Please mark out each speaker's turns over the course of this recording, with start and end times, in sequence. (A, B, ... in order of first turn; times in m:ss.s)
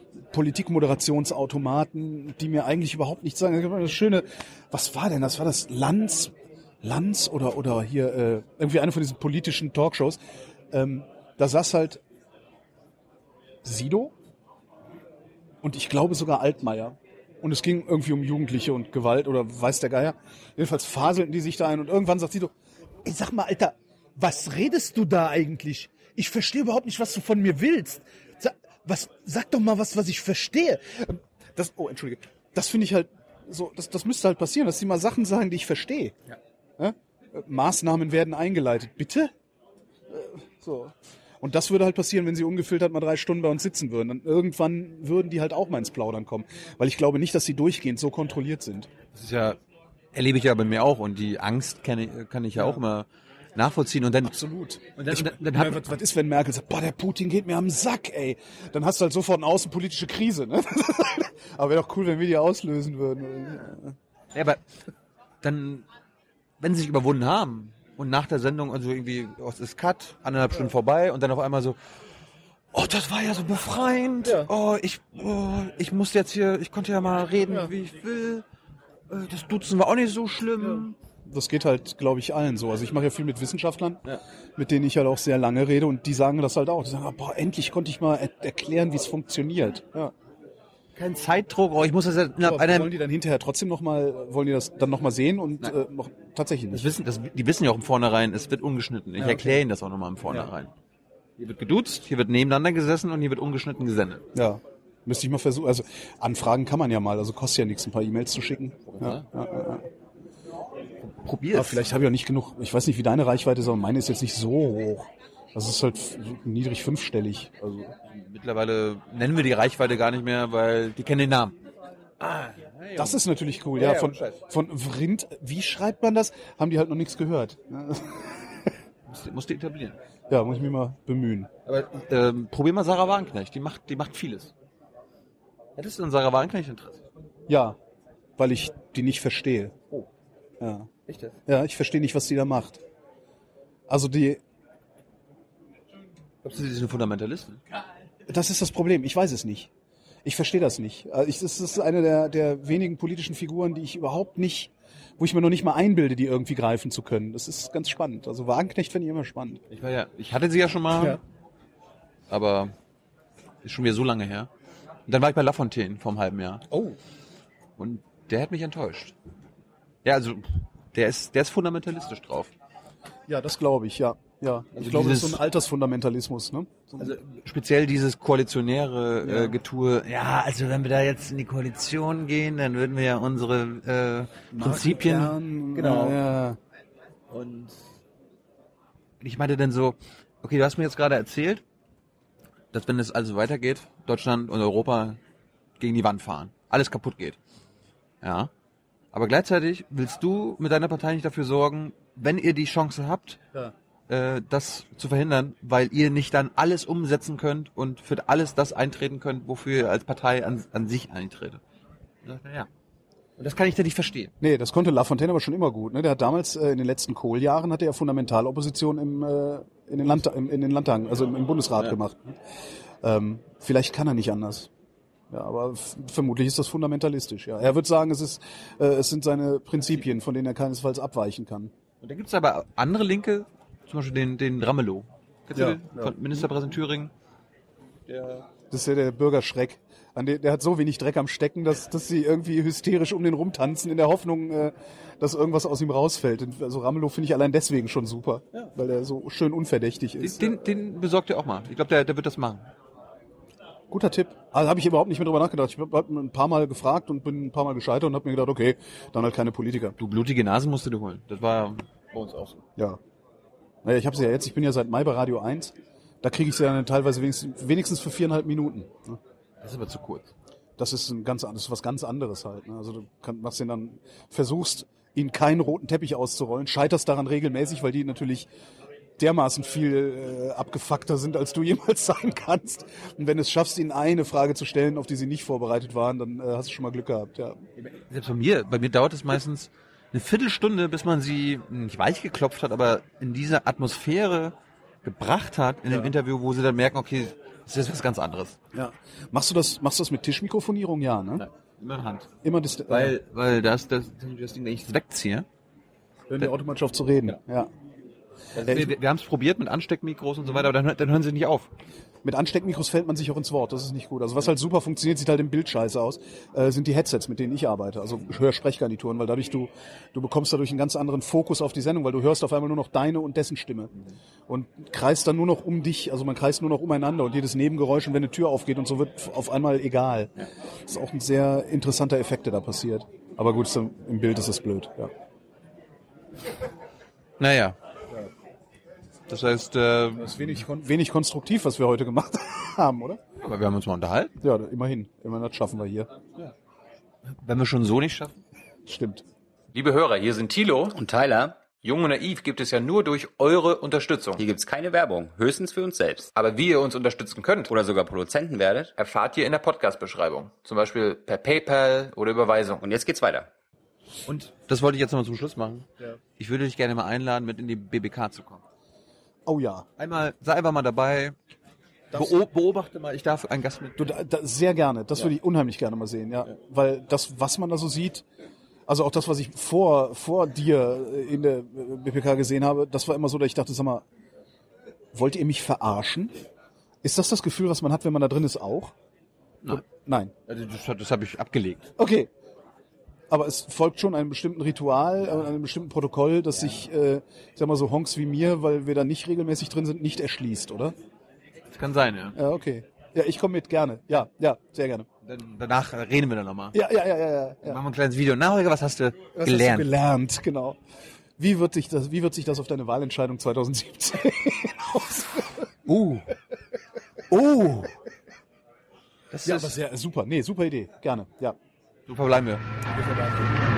0:00.3-0:10.2 A
0:10.7-0:12.0 A
0:13.6-0:14.1 A
0:15.6-0:36.2 A
0:36.8-0:39.3 A
0:40.1-0:48.9 A
0:49.1-0:49.6 B
0:50.1-0:54.4 B
0:52.6-0:52.8 A
0:54.3-1:04.0 A
0:55.0-0:55.9 B
1:04.3-1:04.6 B
1:05.4-1:05.9 B
1:06.6-1:11.8 B
1:12.7-1:18.4 B
1:14.2-1:14.5 A
1:19.1-1:21.0 B
1:20.6-1:24.0 A
1:24.6-1:30.1 A
1:31.0-1:32.9 B
1:32.4-1:36.9 A
1:36.7-1:40.7 B
1:39.2-1:39.6 A
1:41.4-1:44.3 B
1:44.3-1:49.8 A
1:48.9-1:49.2 B
1:51.0-1:51.9 B
1:51.5-1:58.0 A
1:58.1-2:01.6 B
2:02.2-2:03.2 B
2:03.0-2:08.7 A
2:03.8-2:04.4 B
2:09.1-2:10.0 B
2:10.3-2:11.5 A
2:11.6-2:14.5 B
2:15.8-2:17.0 B
2:17.5-2:17.8 A
2:18.4-2:19.8 A
2:20.6-2:20.9 A
2:21.1-2:21.4 B
2:21.5-2:22.8 A
2:23.9-2:24.4 A
2:26.4-2:27.6 B
2:28.3-2:29.7 A
2:30.2-2:39.6 A
2:39.7-2:41.2 B
2:42.3-2:42.7 B
2:43.6-2:44.5 B
2:45.1-2:46.7 B
2:46.7-2:47.0 A
2:47.8-2:49.2 B
2:50.0-2:52.5 B
2:53.3-2:57.2 A
2:54.7-2:55.4 B
2:57.0-3:06.2 B
2:59.2-2:59.6 A
3:04.5-3:06.6 A
3:07.3-3:07.8 B
3:09.2-3:11.6 B
3:12.7-3:15.2 B
3:15.8-3:17.4 B
3:18.2-3:18.5 B
3:19.1-3:23.4 B
3:24.1-3:31.6 B
3:32.2-3:32.7 B
3:33.4-3:34.3 B
3:34.4-3:42.4 A
3:43.0-3:44.7 A
3:45.3-3:51.7 A
3:52.0-3:57.1 B
3:55.6-3:56.4 A
3:58.1-3:58.5 B
3:58.7-4:10.7 A
4:10.2-4:12.7 B
4:13.9-4:20.0 A
4:20.0-4:22.6 B
4:23.8-4:29.2 A
4:29.6-4:30.3 B
4:30.8-4:38.5 A
4:39.2-4:47.6 A
4:47.8-4:58.6 B
4:58.7-5:01.5 A
5:01.4-5:02.3 B
5:02.4-5:03.2 A
5:02.9-5:05.5 B
5:06.3-5:07.7 A
5:08.6-5:11.7 B
5:08.6-5:08.9 A
5:12.2-5:24.0 A
5:24.5-5:35.1 A
5:37.4-5:37.8 B
5:39.3-5:40.6 B
5:40.2-5:43.2 A
5:43.4-5:44.4 B
5:44.4-5:46.1 A
5:47.3-5:48.4 B
5:48.9-5:49.2 A
5:49.7-5:51.0 C
5:50.9-5:51.6 D
5:51.8-5:54.4 C
5:54.4-5:56.3 D
5:56.4-5:57.7 C
5:57.7-5:58.9 D
5:59.0-6:02.8 C
6:02.8-6:03.5 D
6:04.2-6:05.9 B
6:06.4-6:08.6 B
6:09.5-6:09.9 A
6:10.0-6:11.4 B
6:12.1-6:12.4 A
6:12.1-6:14.0 B
6:14.0-6:18.2 A
6:18.9-6:24.0 A
6:25.1-6:26.4 A
6:27.0-6:28.9 A
6:29.7-6:30.3 A
6:30.5-6:31.9 B
6:32.0-6:32.3 A
6:33.3-6:41.0 A
6:41.7-6:42.4 B
6:42.4-6:45.1 A
6:45.2-6:46.8 B
6:46.7-6:47.8 A
6:47.6-6:49.9 B
6:49.4-6:50.8 A
6:51.4-6:55.7 A
6:55.9-6:56.3 B
6:57.3-6:57.9 A
6:59.3-6:59.8 B
6:59.4-7:01.6 A
7:02.1-7:02.6 B
7:02.9-7:03.5 A